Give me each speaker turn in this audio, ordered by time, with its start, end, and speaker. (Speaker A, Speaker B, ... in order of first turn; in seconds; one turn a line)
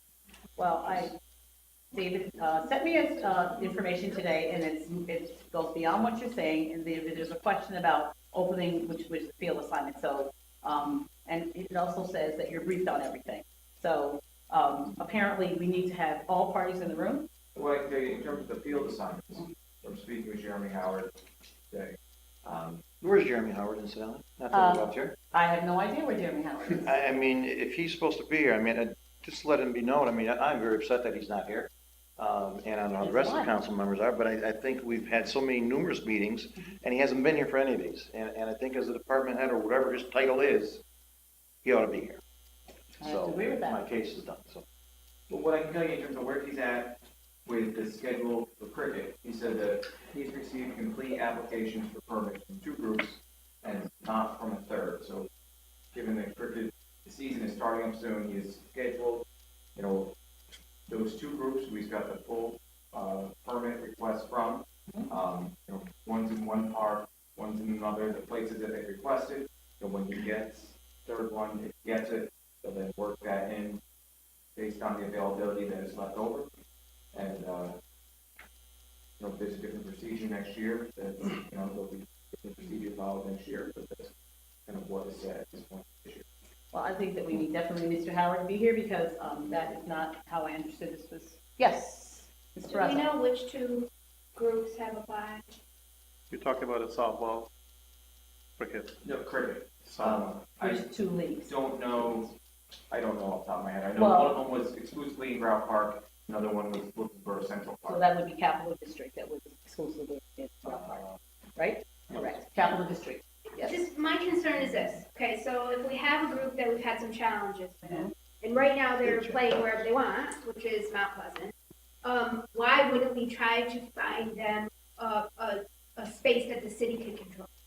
Speaker A: 0.6-1.1
Speaker A: 1.9-17.3
Speaker B: 17.6-21.1
Speaker B: 21.7-22.8
Speaker C: 23.0-25.1
Speaker A: 24.5-26.9
Speaker C: 26.7-40.8
Speaker A: 33.0-33.5
Speaker C: 41.6-42.2
Speaker A: 43.0-43.8
Speaker C: 43.0-44.6
Speaker B: 45.3-55.3
Speaker B: 55.9-59.2
Speaker B: 59.8-60.1
Speaker B: 60.9-73.8
Speaker B: 74.6-76.5
Speaker B: 77.1-77.8
Speaker B: 79.2-84.1
Speaker B: 84.7-86.3
Speaker A: 86.7-93.2
Speaker D: 92.7-95.5
Speaker E: 96.3-97.5
Speaker E: 98.6-98.9
Speaker B: 99.0-100.8
Speaker E: 99.9-100.3
Speaker A: 100.5-101.6
Speaker B: 101.5-102.3
Speaker B: 102.9-108.0
Speaker A: 104.0-104.4
Speaker A: 107.8-111.0
Speaker C: 110.7-111.2
Speaker A: 111.6-113.8
Speaker D: 113.6-127.5
Speaker A: 117.8-118.1
Speaker C: 119.0-119.9